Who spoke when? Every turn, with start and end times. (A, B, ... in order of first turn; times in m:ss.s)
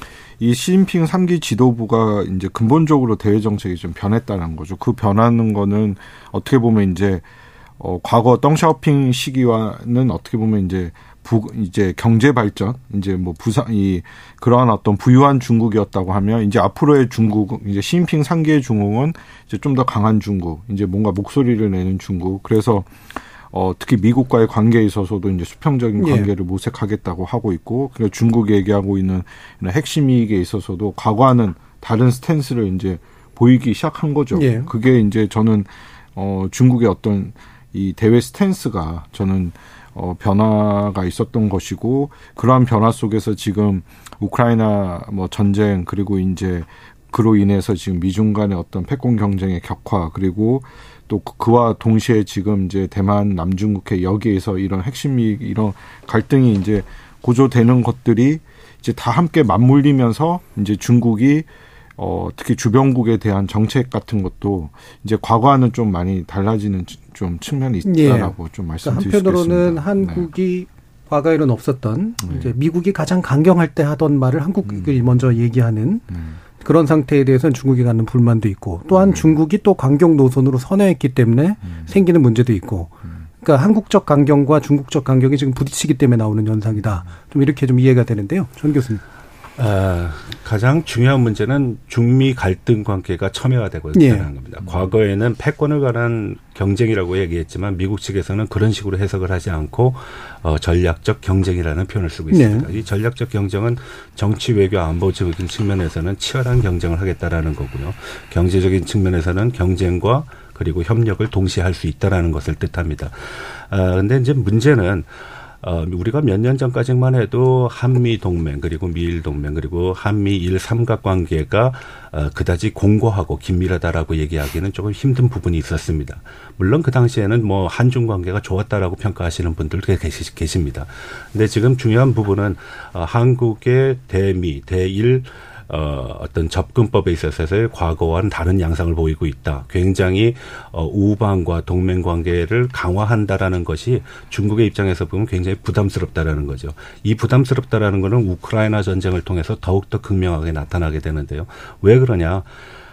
0:00.4-0:07.2 A
0:07.8-1:01.5 A
0:26.0-0:26.3 B
0:34.3-0:34.7 B
1:02.0-1:10.3 A
1:07.8-1:16.1 B
1:12.2-1:12.5 A
1:14.7-1:15.0 A
1:16.1-1:16.4 A
1:16.6-1:29.0 B
1:18.9-1:19.3 A
1:29.6-1:55.1 C
1:33.9-1:34.3 B
1:34.6-1:34.9 A
1:42.3-1:42.7 B
1:55.6-2:32.5 C